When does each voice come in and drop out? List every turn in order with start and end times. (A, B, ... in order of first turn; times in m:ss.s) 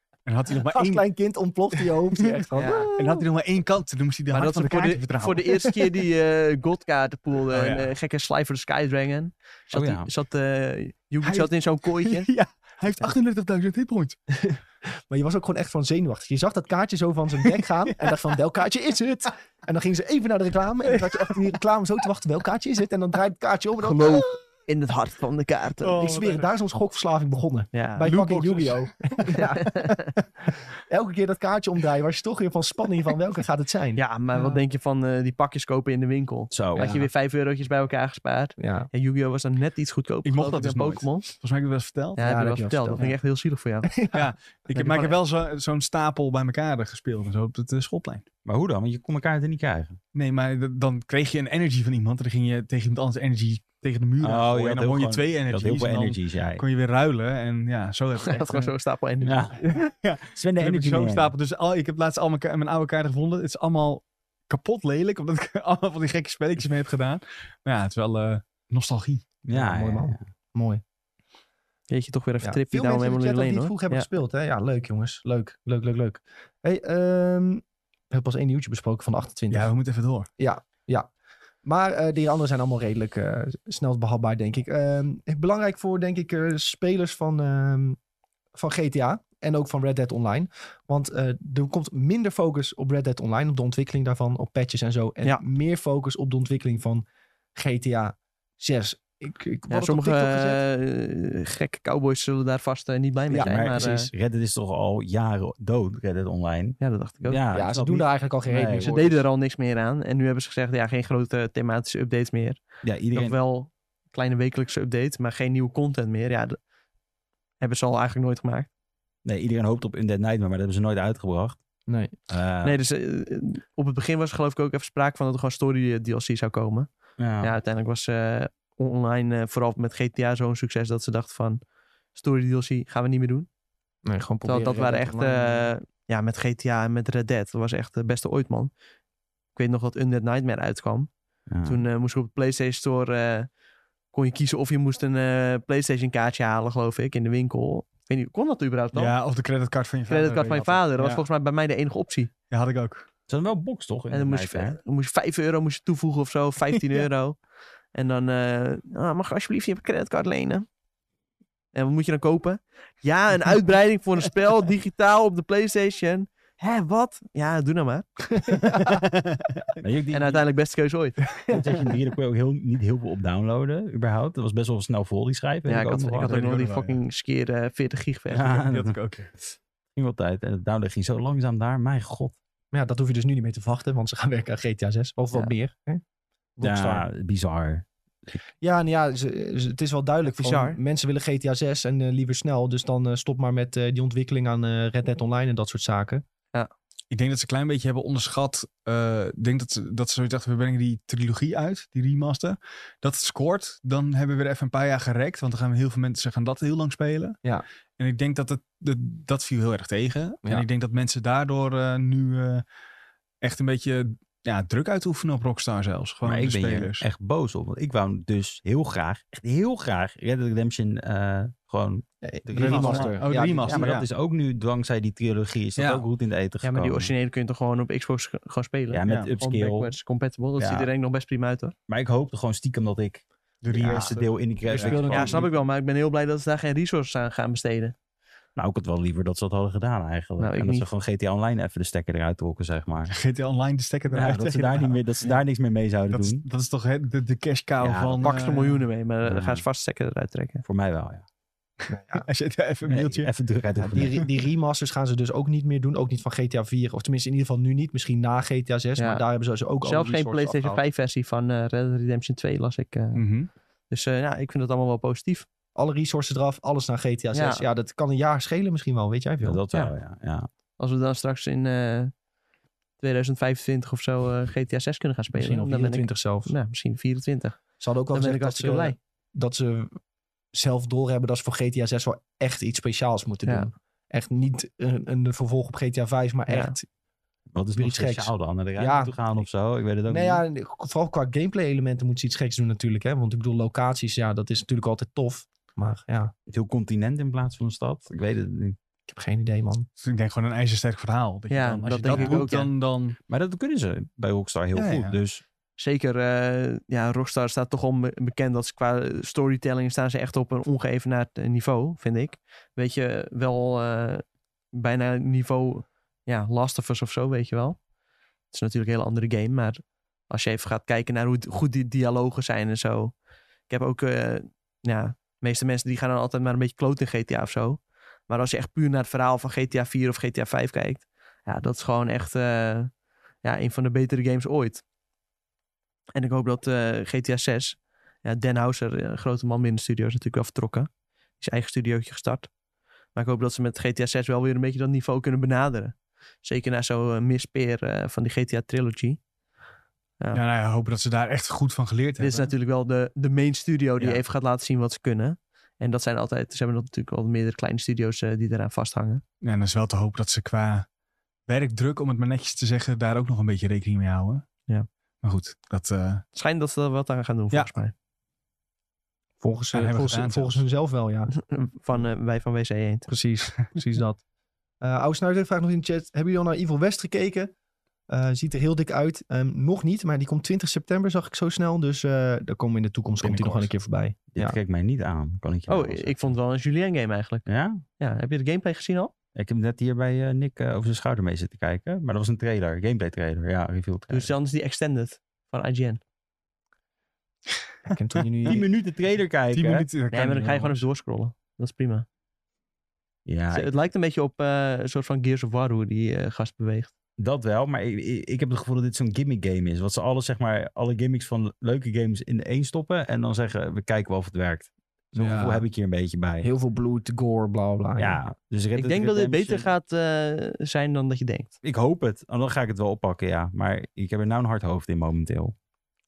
0:00.2-0:01.0 A
0:00.5-0:03.2 B
0:01.7-0:05.7 A
0:02.5-0:02.9 C
0:04.3-0:12.3 C
0:07.5-0:07.9 A
0:09.7-0:10.1 D
0:11.2-0:14.2 A
0:14.4-0:24.4 B
0:17.4-0:18.3 A
0:20.8-0:21.5 A
0:23.8-0:26.0 C
0:25.8-0:26.5 A
0:25.9-0:30.0 B
0:27.7-0:28.1 C
0:28.0-0:29.6 A
0:30.7-0:34.6 B
0:33.9-0:41.3 C
0:36.5-0:36.9 D
0:36.8-0:37.1 B
0:38.6-0:38.9 B
0:40.2-0:42.2 A
0:42.2-0:43.9 C
0:42.2-0:43.1 B
0:43.8-0:44.3 B
0:44.1-0:48.2 A
0:44.7-0:45.2 C
0:48.4-0:50.0 D
0:50.1-0:58.7 A
0:54.2-0:56.6 D
0:58.2-0:59.6 C
0:59.2-1:01.3 D
0:59.6-1:09.2 A
1:09.4-1:10.2 D
1:09.5-1:10.8 B
1:11.9-1:14.1 C
1:12.4-1:19.7 B
1:19.5-1:20.3 A
1:20.4-1:21.1 B
1:21.6-1:28.0 B
1:28.5-1:40.6 B
1:39.7-1:44.1 C
1:43.3-1:44.1 B
1:43.3-1:49.0 D
1:46.8-1:47.4 C
1:47.5-1:49.2 B
1:48.8-1:56.6 C
1:52.8-1:53.4 D
1:57.6-1:58.7 C
1:59.2-2:01.6 D
2:01.9-2:02.1 B
2:02.3-2:02.8 D
2:02.6-2:11.6 C
2:07.2-2:07.5 D
2:12.1-2:13.5 C
2:14.0-2:15.7 B
2:14.4-2:18.7 C
2:19.5-2:21.1 C
2:21.5-2:21.8 D
2:21.6-2:23.5 C
2:24.1-2:29.1 C
2:28.9-2:31.2 A
2:30.1-2:32.3 C
2:32.5-2:33.0 A
2:33.3-2:34.8 D
2:34.1-2:40.6 C
2:36.7-2:37.0 A
2:41.7-2:48.1 C
2:48.4-2:48.9 B
2:48.6-2:49.7 A
2:49.8-2:50.4 D
2:50.1-2:51.2 C
2:51.4-2:56.4 D
2:55.6-2:58.6 C
2:56.2-2:57.0 A
2:58.3-3:02.4 D
2:58.5-2:59.3 A
3:02.7-3:06.0 B
3:06.6-3:07.1 B
3:06.6-3:08.4 D
3:08.6-3:16.2 B
3:10.2-3:10.8 C
3:17.1-3:27.4 A
3:28.0-3:32.6 A
3:33.4-3:37.1 A
3:36.2-3:47.1 D
3:42.2-3:43.9 B
3:42.5-3:44.1 A
3:45.8-3:46.0 A
3:46.6-3:51.7 C
3:48.9-3:49.9 D
3:49.0-3:49.3 A
3:50.6-3:50.9 D
3:51.9-3:55.4 D
3:53.6-3:55.3 A
3:53.9-3:54.2 C
3:54.7-3:55.5 B
3:55.1-3:57.9 C
3:58.6-4:03.1 D
4:00.4-4:00.9 C
4:03.1-4:05.0 A
4:04.1-4:06.4 D
4:06.1-4:08.8 A
4:07.8-4:08.3 D
4:08.2-4:10.6 C
4:09.2-4:09.6 D
4:10.6-4:11.2 D
4:11.9-4:12.2 B
4:12.1-4:13.3 A
4:12.9-4:14.2 D
4:13.8-4:20.8 B
4:19.0-4:19.2 C
4:19.8-4:23.2 C
4:23.1-4:23.5 A
4:23.9-4:25.5 C
4:25.7-4:29.6 B
4:27.3-4:27.6 C
4:29.4-4:30.5 D
4:30.8-4:32.1 C
4:33.0-4:38.9 C
4:35.3-4:36.5 B
4:37.8-4:40.0 B
4:40.5-4:46.8 B
4:46.5-4:46.7 C
4:47.5-4:50.4 D
4:47.8-4:49.2 B
4:50.1-4:56.3 B
4:56.5-4:58.8 D
4:59.1-4:59.9 B
5:00.0-5:03.2 A
5:01.5-5:02.7 C
5:02.0-5:02.5 D
5:03.3-5:05.4 D
5:04.7-5:05.2 A
5:05.8-5:17.8 C
5:18.5-5:23.2 C
5:23.7-5:34.8 C
5:36.1-5:40.9 C
5:41.4-5:42.5 C
5:43.1-5:49.2 C
5:50.3-5:52.5 A
5:52.2-5:59.2 C
5:59.4-6:00.9 A
6:01.5-6:04.4 A
6:05.2-6:06.2 A
6:06.3-6:07.9 C
6:09.4-6:11.3 B
6:09.7-6:10.6 A
6:11.3-6:13.1 C
6:13.1-6:14.2 B
6:14.8-6:17.5 B
6:18.1-6:24.6 B
6:23.2-6:23.7 A
6:24.3-6:26.4 D
6:25.7-6:27.4 C
6:27.4-6:27.8 D
6:28.0-6:29.1 C
6:29.3-6:34.3 D
6:34.1-6:36.0 C
6:37.8-6:38.6 B
6:38.4-6:39.8 D
6:39.5-6:40.8 A
6:40.1-6:42.0 C
6:43.2-6:43.7 D
6:43.5-6:46.9 C
6:47.2-6:56.5 D
6:55.1-6:55.6 B
6:56.4-6:58.2 B
6:58.0-6:59.7 D
6:58.8-7:01.5 C
7:01.6-7:05.5 D